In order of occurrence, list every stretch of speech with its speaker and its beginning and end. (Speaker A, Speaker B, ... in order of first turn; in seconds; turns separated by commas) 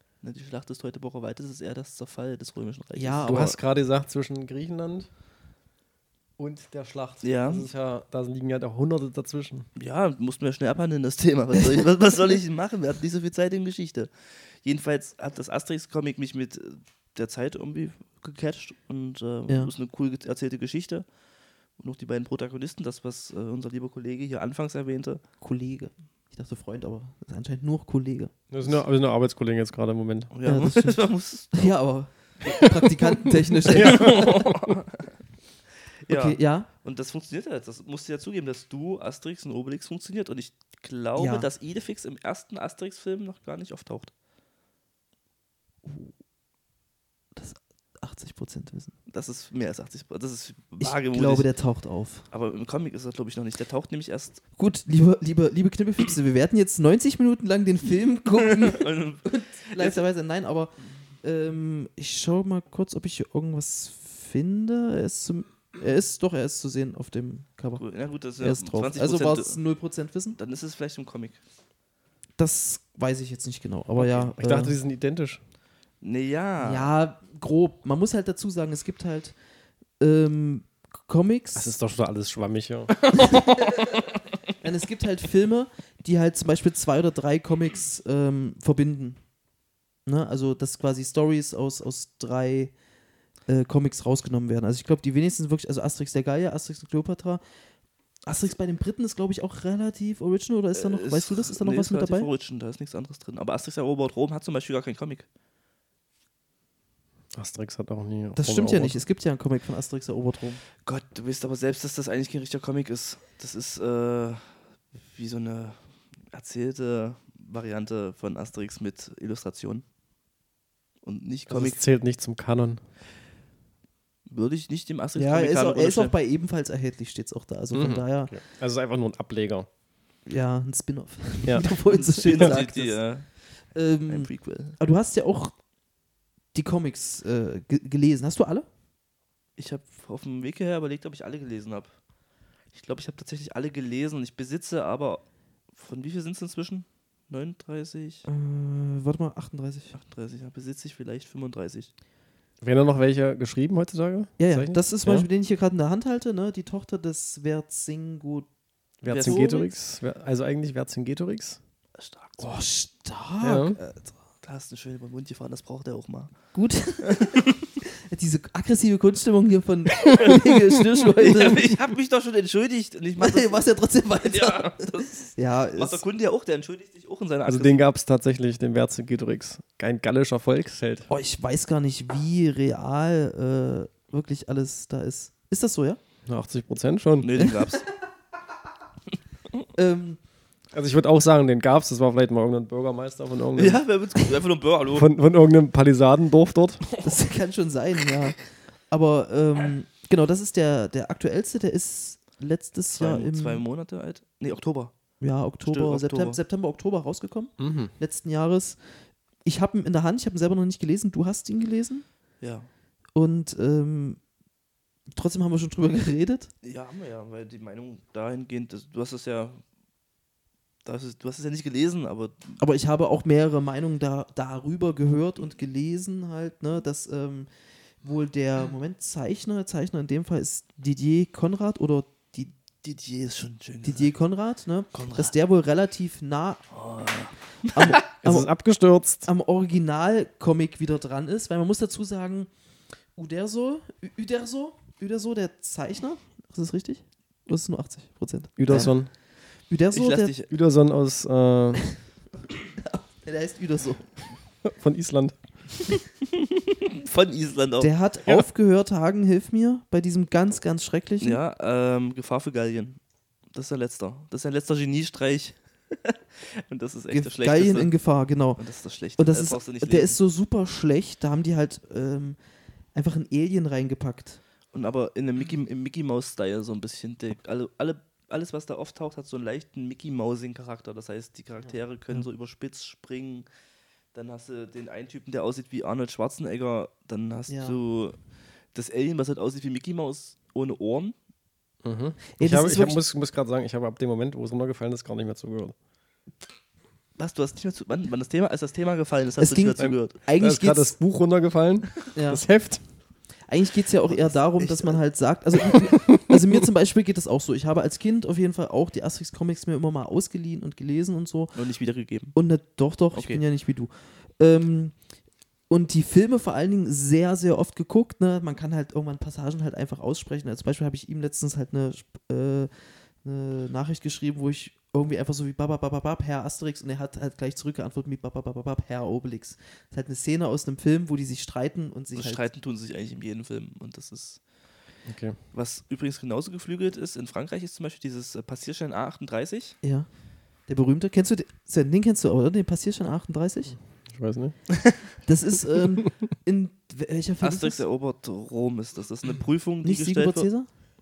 Speaker A: 0.2-3.4, Speaker B: 3.0-3.6, Speaker C: 3.3-5.1, Speaker C: 6.4-9.7, Speaker A: 7.2-7.7, Speaker A: 9.8-21.1, Speaker A: 21.8-25.2, Speaker B: 25.4-28.8, Speaker C: 28.5-30.3, Speaker A: 30.3-31.7, Speaker B: 30.5-34.4, Speaker A: 33.7-35.1, Speaker C: 33.7-34.8, Speaker A: 36.0-44.1, Speaker B: 36.1-36.7, Speaker B: 41.2-41.5, Speaker B: 45.9-46.1, Speaker B: 47.4-48.9, Speaker A: 49.1-51.5, Speaker B: 50.8-52.2, Speaker A: 52.3-54.4, Speaker B: 54.6-67.8, Speaker A: 58.3-60.0, Speaker A: 67.8-69.6, Speaker B: 68.4-70.4, Speaker A: 70.4-71.4, Speaker B: 72.4-74.8, Speaker C: 74.0-75.4, Speaker A: 76.0-76.9, Speaker B: 76.6-79.3, Speaker B: 80.0-81.8, Speaker C: 81.6-83.0, Speaker A: 83.0-84.0, Speaker B: 83.1-84.1, Speaker B: 84.6-89.2, Speaker B: 90.1-92.8, Speaker B: 93.5-97.4, Speaker B: 98.3-102.3, Speaker A: 100.8-105.3, Speaker C: 107.3-109.0, Speaker B: 108.3-110.6, Speaker A: 110.8-114.5, Speaker A: 115.1-119.8, Speaker A: 121.0-121.8, Speaker C: 121.5-122.8, Speaker A: 124.3-126.2, Speaker B: 125.2-128.3, Speaker C: 127.7-129.7, Speaker B: 130.3-133.0, Speaker A: 131.9-133.3, Speaker C: 132.3-132.6, Speaker B: 133.7-135.6, Speaker A: 134.1-134.8, Speaker B: 136.5-138.7, Speaker A: 139.6-141.9, Speaker A: 142.7-148.3, Speaker B: 148.3-149.9, Speaker A: 149.9-151.9, Speaker C: 152.6-155.3, Speaker B: 154.4-158.5, Speaker C: 159.0-161.6, Speaker A: 159.1-159.7, Speaker B: 159.2-159.7, Speaker A: 162.0-162.5, Speaker B: 162.4-164.1, Speaker C: 163.4-163.8, Speaker A: 164.4-166.3, Speaker B: 166.5-171.8, Speaker A: 167.1-167.6, Speaker A: 170.1-170.4, Speaker A: 171.2-173.6, Speaker B: 173.2-176.0, Speaker A: 174.2-177.8, Speaker C: 177.5-181.1, Speaker B: 181.1-186.0, Speaker C: 186.3-187.3, Speaker A: 187.2-187.9, Speaker B: 187.4-187.8, Speaker B: 189.7-190.2, Speaker C: 190.7-193.8, Speaker A: 193.6-195.1, Speaker C: 194.9-196.8, Speaker B: 197.0-203.6, Speaker A: 202.9-204.9, Speaker B: 205.2-208.8, Speaker A: 205.7-206.4, Speaker C: 207.6-207.9, Speaker B: 209.4-212.1, Speaker A: 212.4-212.7, Speaker B: 213.2-214.2, Speaker B: 215.1-216.5, Speaker A: 216.6-219.6, Speaker A: 220.8-222.6, Speaker B: 222.6-227.5, Speaker B: 228.0-232.5, Speaker A: 232.8-234.1, Speaker B: 233.8-236.7, Speaker A: 234.9-235.3, Speaker A: 236.7-238.0, Speaker B: 237.7-238.5, Speaker C: 238.2-239.3, Speaker B: 239.2-242.5, Speaker B: 243.2-249.0, Speaker C: 248.6-249.1, Speaker B: 249.7-250.3, Speaker A: 249.9-250.5, Speaker C: 250.5-251.9, Speaker B: 252.8-254.1, Speaker C: 254.6-255.4, Speaker A: 256.7-257.9, Speaker B: 257.8-261.4, Speaker A: 261.2-263.0, Speaker A: 263.5-267.9, Speaker B: 267.1-268.6, Speaker A: 268.6-270.2, Speaker B: 269.2-272.4, Speaker B: 272.9-274.4, Speaker A: 274.7-283.5, Speaker A: 284.1-288.2, Speaker B: 287.5-287.8, Speaker A: 288.7-291.1, Speaker C: 291.8-295.8, Speaker B: 292.4-293.0, Speaker A: 297.2-300.2, Speaker B: 299.4-300.9, Speaker C: 299.8-302.8, Speaker B: 302.1-302.4, Speaker B: 303.5-311.6, Speaker A: 304.1-305.0, Speaker A: 311.6-312.4, Speaker B: 312.3-315.0, Speaker A: 313.1-313.4, Speaker B: 315.7-332.4, Speaker A: 332.1-334.4, Speaker C: 335.1-335.4, Speaker A: 335.5-339.8, Speaker B: 339.8-340.1, Speaker B: 340.7-343.8, Speaker C: 344.1-344.6, Speaker B: 345.3-347.8, Speaker A: 347.4-350.5, Speaker B: 349.8-350.7